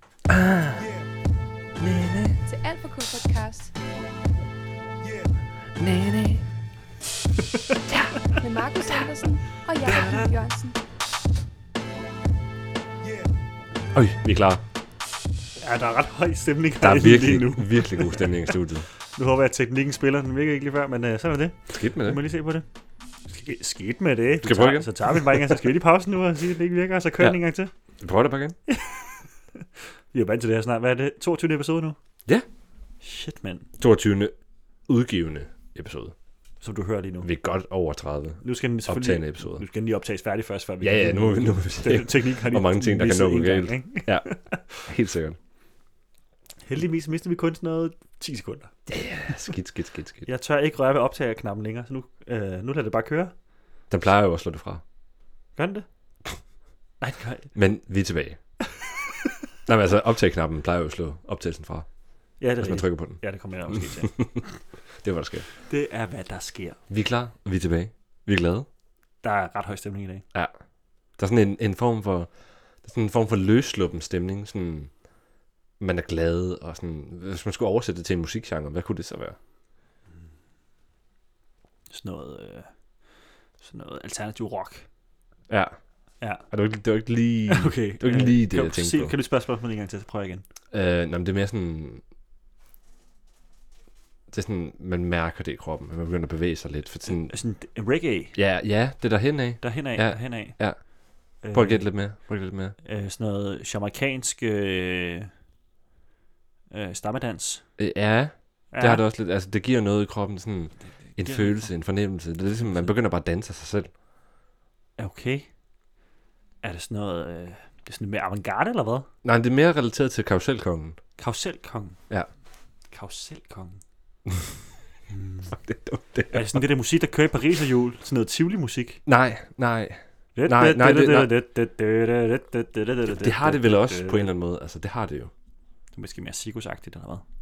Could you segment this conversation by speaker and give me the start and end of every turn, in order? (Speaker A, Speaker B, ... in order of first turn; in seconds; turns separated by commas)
Speaker A: 0.3-0.9, Speaker A: 1.8-2.4, Speaker B: 2.5-3.7, Speaker A: 5.8-6.4, Speaker B: 8.2-10.8, Speaker C: 9.8-10.3, Speaker A: 13.9-14.6, Speaker C: 15.6-18.5, Speaker A: 16.8-18.9, Speaker C: 19.1-22.6, Speaker A: 21.7-22.2, Speaker C: 23.3-27.7, Speaker A: 24.4-25.6, Speaker A: 28.0-28.6, Speaker C: 28.7-31.9, Speaker C: 33.0-33.7, Speaker A: 33.8-34.3, Speaker A: 34.9-36.1, Speaker C: 36.6-37.3, Speaker A: 37.2-39.6, Speaker C: 38.4-44.9, Speaker A: 40.8-44.3, Speaker A: 44.8-45.4, Speaker C: 46.6-48.7, Speaker A: 48.9-50.3, Speaker C: 50.2-53.3, Speaker A: 53.9-54.8, Speaker C: 55.6-55.9, Speaker C: 57.0-57.5, Speaker A: 57.5-58.4, Speaker C: 58.8-59.1, Speaker A: 59.6-61.9, Speaker C: 62.4-64.2, Speaker A: 62.6-64.4, Speaker A: 65.0-65.5, Speaker C: 65.6-66.8, Speaker A: 66.9-68.7, Speaker C: 69.2-70.2, Speaker A: 71.2-72.3, Speaker A: 72.8-74.9, Speaker A: 75.8-79.4, Speaker C: 81.9-82.7, Speaker C: 83.6-84.8, Speaker A: 85.5-85.7, Speaker C: 86.2-86.5, Speaker A: 86.5-89.1, Speaker C: 87.5-90.4, Speaker A: 90.7-92.0, Speaker A: 94.3-97.3, Speaker C: 97.1-98.3, Speaker A: 98.3-100.8, Speaker C: 99.6-100.6, Speaker C: 101.4-101.9, Speaker A: 101.5-102.7, Speaker C: 102.8-105.3, Speaker C: 106.7-107.6, Speaker A: 107.8-113.9, Speaker C: 108.7-109.0, Speaker C: 111.2-111.6, Speaker C: 115.0-115.5, Speaker C: 116.6-119.1, Speaker A: 119.2-121.0, Speaker C: 121.2-122.0, Speaker C: 122.9-123.8, Speaker C: 125.1-125.5, Speaker A: 125.5-126.6, Speaker C: 126.3-129.0, Speaker A: 129.1-131.3, Speaker C: 130.3-134.3, Speaker A: 133.1-135.3, Speaker C: 135.9-137.2